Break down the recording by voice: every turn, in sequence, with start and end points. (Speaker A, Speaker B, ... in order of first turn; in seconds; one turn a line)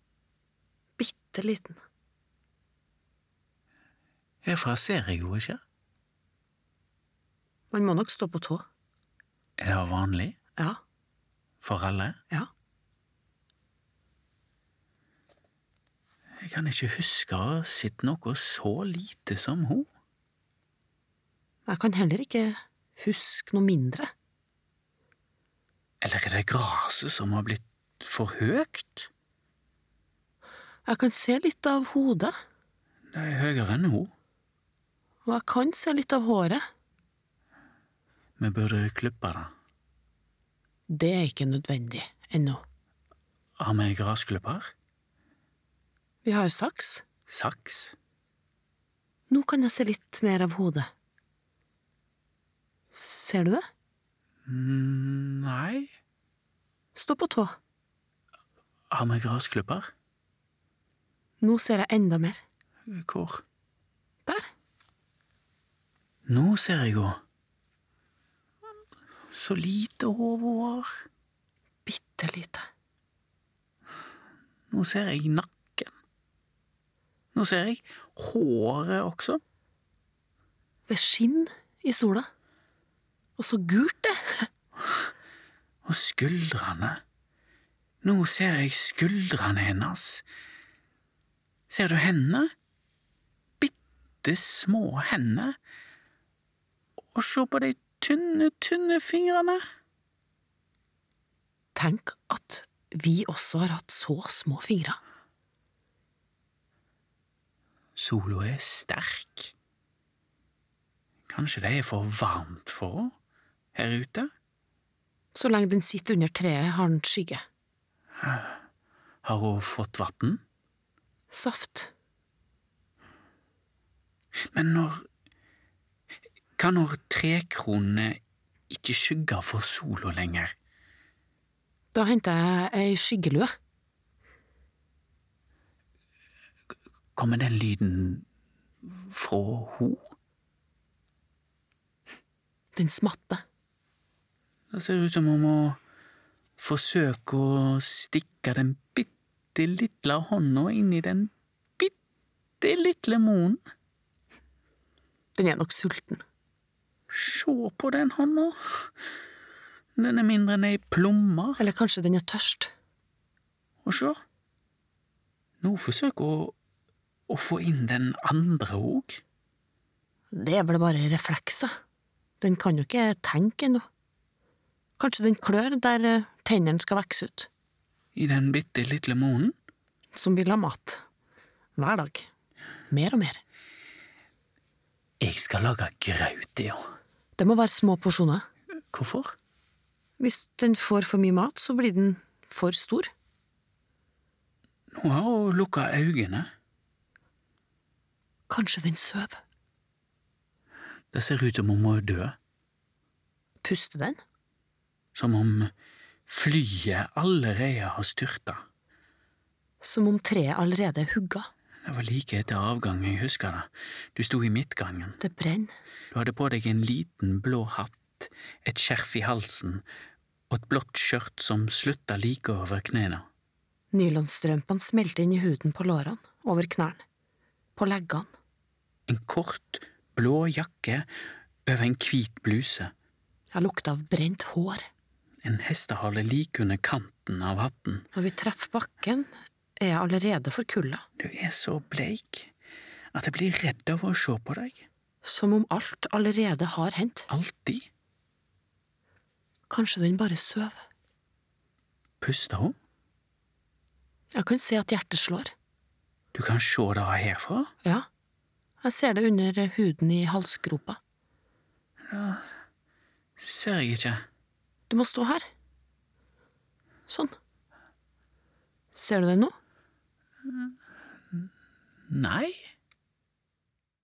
Speaker A: 1.0-1.8
Speaker B: 4.4-5.6
Speaker A: 7.7-8.6
Speaker B: 9.6-10.4
Speaker B: 11.6-12.2
Speaker B: 16.4-19.9
Speaker A: 21.7-24.1
Speaker B: 26.0-29.1
Speaker A: 30.9-32.3
Speaker B: 33.1-34.1
Speaker A: 35.3-36.6
Speaker B: 38.4-39.5
Speaker A: 40.9-42.6
Speaker B: 43.6-44.7
Speaker A: 46.2-47.0
Speaker B: 47.3-48.0
Speaker A: 49.3-50.9
Speaker A: 52.9-53.6
Speaker B: 54.5-55.9
Speaker A: 57.0-57.5
Speaker B: 58.9-59.9
Speaker A: 61.4-62.4
Speaker B: 62.9-63.4
Speaker B: 66.2-67.2
Speaker B: 69.3-70.9
Speaker A: 71.9-72.7
Speaker B: 74.7-75.9
Speaker B: 77.3-79.4
Speaker A: 80.9-82.3
Speaker A: 83.4-84.5
Speaker B: 85.8-87.0
Speaker B: 88.0-90.2
Speaker B: 91.7-92.5
Speaker B: 93.6-95.6
Speaker B: 97.1-99.6
Speaker A: 101.8-105.0
Speaker B: 108.0-109.5
Speaker B: 111.3-113.1
Speaker B: 113.8-114.3
Speaker A: 115.3-117.4
Speaker B: 118.2-118.6
Speaker B: 119.2-120.4
Speaker A: 121.3-121.9
Speaker B: 124.5-125.0
Speaker B: 126.6-130.5
Speaker A: 131.9-133.5
Speaker B: 137.2-138.2
Speaker B: 138.8-140.1
Speaker A: 142.8-143.4
Speaker B: 144.7-145.8
Speaker B: 146.6-151.9
Speaker B: 152.6-153.6
Speaker A: 155.3-156.2
Speaker B: 157.1-158.6
Speaker B: 160.0-161.6
Speaker A: 161.6-162.7
Speaker B: 163.8-164.2
Speaker B: 165.6-166.5
Speaker B: 167.3-169.2
Speaker A: 170.3-171.7
Speaker A: 172.4-173.8
Speaker A: 175.0-177.5
Speaker B: 178.1-179.5
Speaker A: 180.1-181.0
Speaker A: 181.8-182.3
Speaker A: 182.9-183.4
Speaker B: 185.2-186.8
Speaker A: 187.4-188.4
Speaker B: 188.9-189.3
Speaker A: 190.2-193.1
Speaker B: 194.9-196.5
Speaker A: 198.5-199.4
Speaker B: 201.1-202.3
Speaker A: 203.6-204.2
Speaker B: 205.1-205.7
Speaker B: 206.3-208.6
Speaker A: 209.8-211.5
Speaker B: 211.8-215.2
Speaker A: 215.2-215.7
Speaker B: 216.1-219.8
Speaker B: 220.5-223.2
Speaker A: 223.9-227.0
Speaker A: 227.8-228.3
Speaker B: 229.1-231.1
Speaker B: 231.7-232.9
Speaker A: 233.5-234.8
Speaker B: 235.4-238.1
Speaker A: 238.1-239.3
Speaker A: 239.8-241.0
Speaker B: 241.2-242.5
Speaker B: 243.1-244.8
Speaker A: 245.2-247.3
Speaker B: 247.3-247.9
Speaker A: 249.7-250.8
Speaker B: 252.2-252.7
Speaker A: 254.3-255.5
Speaker B: 256.3-257.7
Speaker A: 258.8-261.0
Speaker B: 262.1-262.4
Speaker B: 263.4-264.2
Speaker A: 264.9-265.4
Speaker A: 267.1-267.3
Speaker A: 268.9-269.5
Speaker B: 272.1-272.6